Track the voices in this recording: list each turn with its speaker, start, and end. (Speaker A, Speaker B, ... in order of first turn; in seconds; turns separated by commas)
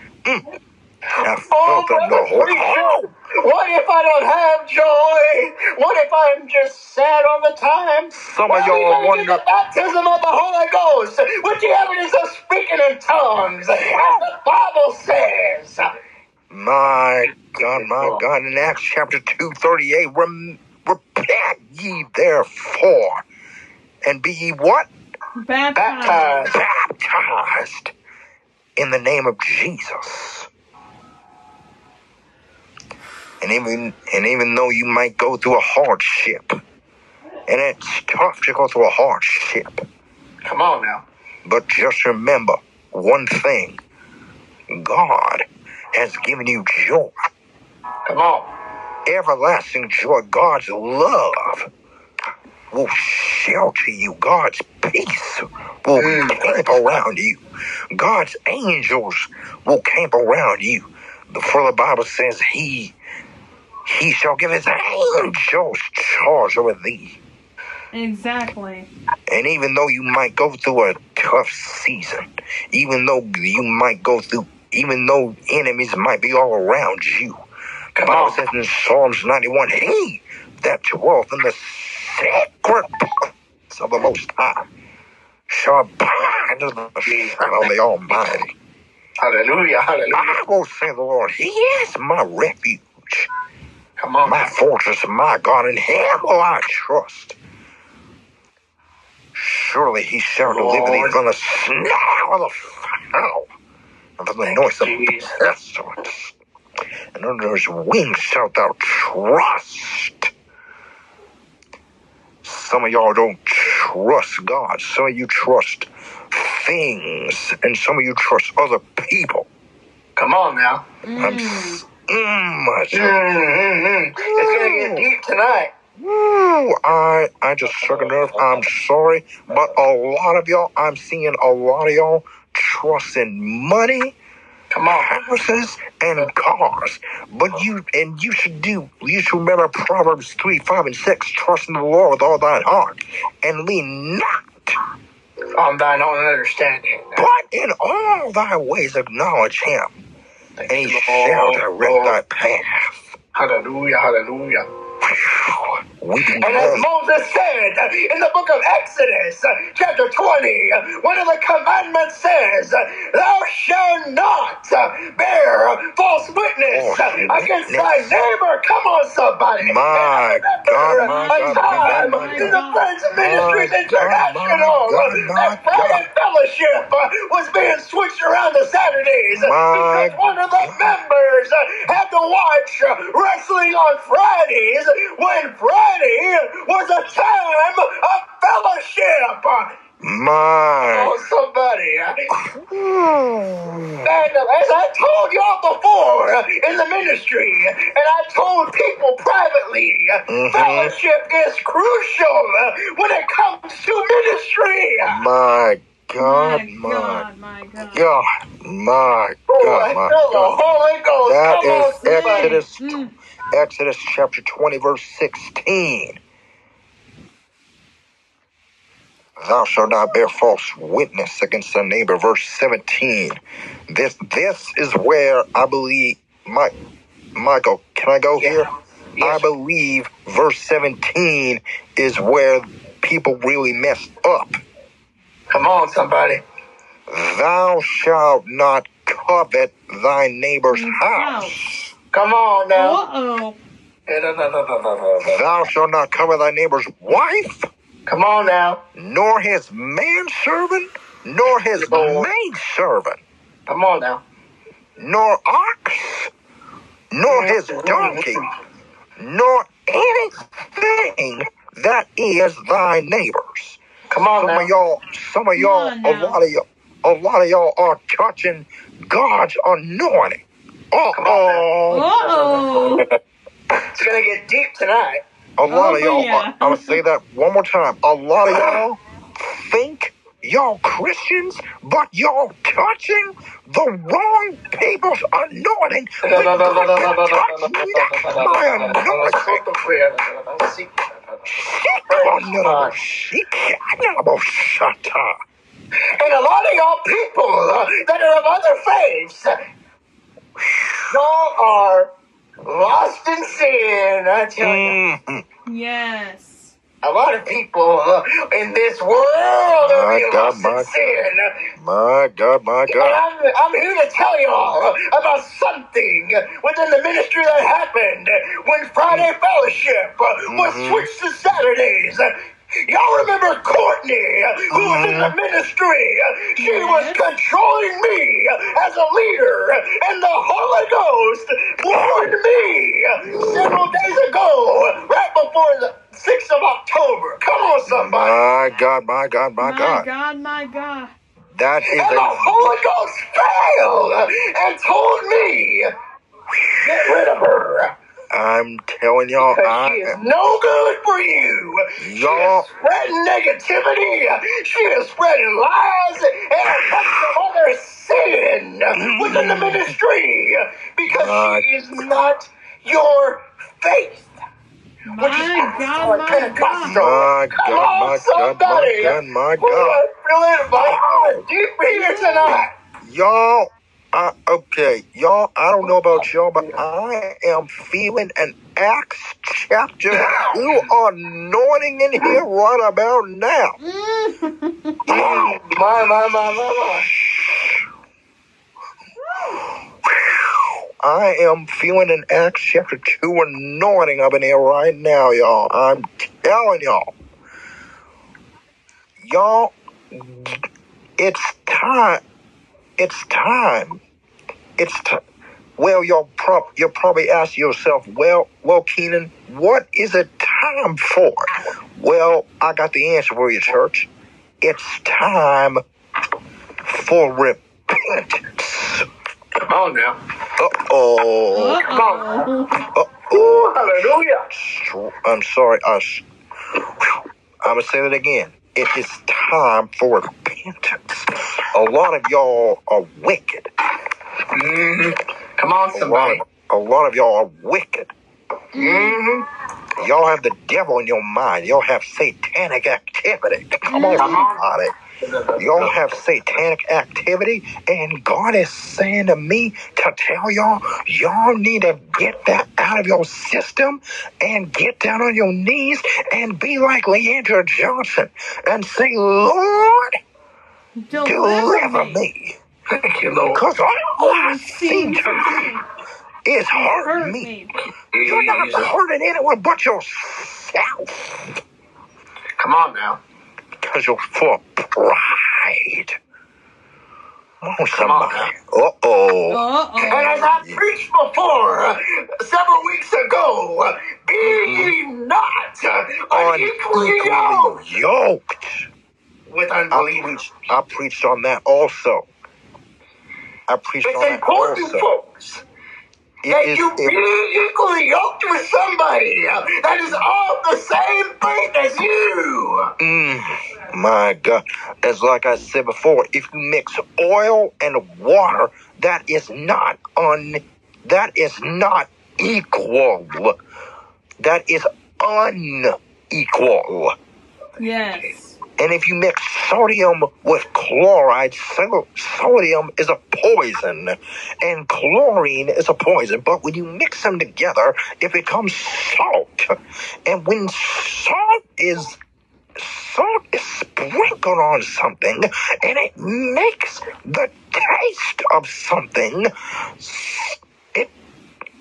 Speaker A: 1.2-3.1, Speaker B: 1.4-15.9, Speaker A: 8.1-9.4, Speaker A: 13.8-14.3, Speaker A: 16.5-23.2, Speaker B: 17.6-18.2, Speaker A: 24.0-24.9, Speaker C: 25.4-26.5, Speaker B: 25.8-26.5, Speaker A: 26.5-27.9, Speaker A: 28.8-30.5, Speaker A: 33.4-36.5, Speaker A: 37.5-39.8, Speaker B: 40.4-41.0, Speaker A: 41.4-43.8, Speaker A: 44.7-47.1, Speaker B: 48.0-48.5, Speaker A: 49.0-51.7, Speaker A: 52.7-57.4, Speaker B: 56.0-56.6, Speaker A: 57.9-62.9, Speaker A: 63.9-67.2, Speaker C: 67.9-68.9, Speaker A: 69.3-77.4, Speaker B: 78.0-78.4, Speaker A: 78.0-84.6, Speaker A: 85.5-88.5, Speaker B: 87.0-87.7, Speaker B: 89.2-90.3, Speaker A: 90.1-93.3, Speaker B: 94.0-94.5, Speaker A: 94.2-97.4, Speaker A: 99.3-103.5, Speaker B: 100.4-101.2, Speaker A: 104.2-106.3, Speaker B: 104.6-105.5, Speaker A: 107.1-110.3, Speaker A: 112.4-119.5, Speaker B: 120.2-120.8, Speaker C: 121.0-121.8, Speaker A: 121.2-123.2, Speaker B: 122.9-125.7, Speaker A: 124.2-125.1, Speaker A: 126.0-134.2, Speaker B: 134.7-135.1, Speaker A: 134.9-144.8, Speaker B: 145.6-147.2, Speaker A: 147.2-150.0, Speaker B: 150.6-152.2, Speaker A: 150.7-153.1, Speaker B: 153.3-154.6, Speaker A: 155.0-156.9, Speaker B: 156.4-189.7, Speaker A: 166.7-168.2, Speaker A: 169.6-172.6, Speaker C: 171.0-172.9, Speaker A: 173.1-176.0, Speaker A: 179.3-180.9, Speaker A: 190.0-191.1, Speaker B: 190.8-192.2, Speaker A: 192.3-194.1, Speaker B: 194.0-205.2, Speaker A: 200.3-200.9, Speaker A: 205.1-207.2, Speaker C: 206.2-208.1, Speaker A: 207.9-210.6, Speaker B: 209.5-212.6, Speaker A: 211.2-213.0, Speaker C: 212.1-213.1, Speaker A: 213.5-216.2, Speaker A: 219.4-226.7, Speaker A: 227.3-228.7, Speaker B: 229.1-229.5, Speaker A: 229.2-234.6, Speaker B: 235.5-236.4, Speaker A: 237.1-241.9, Speaker C: 240.7-241.6, Speaker B: 242.1-243.0, Speaker C: 242.7-243.6, Speaker B: 244.1-245.4, Speaker A: 245.2-247.7, Speaker B: 248.1-248.8, Speaker A: 248.9-253.2, Speaker B: 251.8-252.3, Speaker B: 253.7-254.2, Speaker A: 255.0-256.3, Speaker A: 257.1-258.4, Speaker B: 257.3-258.4, Speaker A: 259.2-263.8, Speaker B: 264.1-264.7, Speaker A: 264.3-272.1, Speaker C: 265.5-266.4, Speaker B: 271.1-273.1, Speaker C: 271.9-273.1, Speaker B: 273.8-275.2, Speaker A: 275.6-289.6, Speaker C: 275.7-277.0, Speaker B: 278.5-278.8, Speaker B: 286.2-291.4, Speaker A: 291.4-295.4, Speaker B: 292.1-292.9, Speaker B: 296.1-299.5, Speaker A: 300.6-301.1, Speaker B: 301.1-302.1, Speaker B: 302.6-305.0, Speaker A: 304.6-305.4, Speaker C: 305.6-306.7, Speaker B: 307.0-311.5, Speaker A: 309.8-311.2, Speaker A: 311.8-313.2, Speaker B: 312.9-322.3, Speaker A: 320.5-321.1, Speaker B: 322.9-338.4, Speaker A: 324.7-325.3, Speaker C: 326.6-327.2, Speaker A: 331.9-332.3, Speaker A: 333.3-333.9, Speaker A: 337.9-340.1, Speaker C: 339.6-341.1, Speaker A: 341.5-342.8, Speaker B: 341.9-345.9, Speaker A: 346.5-347.1, Speaker B: 346.8-347.9, Speaker A: 348.3-350.2, Speaker B: 349.4-364.3, Speaker A: 352.0-352.7, Speaker A: 356.7-357.3, Speaker A: 358.9-359.9, Speaker A: 361.1-362.2, Speaker C: 365.1-367.0, Speaker B: 365.2-372.7, Speaker A: 366.8-370.0, Speaker A: 370.7-371.4, Speaker C: 371.9-372.6, Speaker A: 373.0-383.8, Speaker B: 380.1-380.6, Speaker C: 383.8-385.0, Speaker A: 385.1-385.7, Speaker B: 385.1-387.1, Speaker A: 387.0-387.8, Speaker A: 390.0-397.1, Speaker A: 399.2-400.6, Speaker A: 401.2-402.2, Speaker A: 403.0-404.0, Speaker A: 404.8-405.2, Speaker A: 405.8-414.1, Speaker A: 414.6-415.8, Speaker A: 416.8-419.1, Speaker B: 419.7-420.2, Speaker A: 420.6-421.9, Speaker C: 421.5-422.8, Speaker B: 421.9-422.5, Speaker A: 422.9-426.2, Speaker B: 423.3-424.4, Speaker A: 427.6-433.7, Speaker B: 434.5-436.4, Speaker A: 435.9-438.1, Speaker C: 438.7-439.2, Speaker B: 438.7-439.4, Speaker A: 440.0-444.9, Speaker C: 443.9-444.5, Speaker B: 444.1-444.6, Speaker B: 445.2-446.1, Speaker A: 445.6-460.1, Speaker C: 461.0-462.2, Speaker A: 461.2-462.6, Speaker B: 462.9-463.6, Speaker A: 463.5-465.7, Speaker C: 464.2-465.8, Speaker A: 466.4-467.5, Speaker C: 466.7-467.7, Speaker B: 468.1-468.9, Speaker A: 468.2-471.6, Speaker B: 472.6-473.2, Speaker A: 473.8-476.2, Speaker A: 477.6-479.6, Speaker B: 477.9-478.5, Speaker C: 479.5-480.5, Speaker B: 480.0-487.8, Speaker A: 484.4-484.9, Speaker A: 486.3-488.9, Speaker B: 489.5-490.4, Speaker A: 489.9-492.3, Speaker A: 493.7-495.1, Speaker B: 494.0-495.6, Speaker A: 496.4-497.2, Speaker B: 496.5-502.9, Speaker A: 503.0-513.6, Speaker A: 514.4-517.1, Speaker C: 517.8-518.6, Speaker A: 518.8-529.7, Speaker A: 530.2-532.2, Speaker A: 532.8-541.1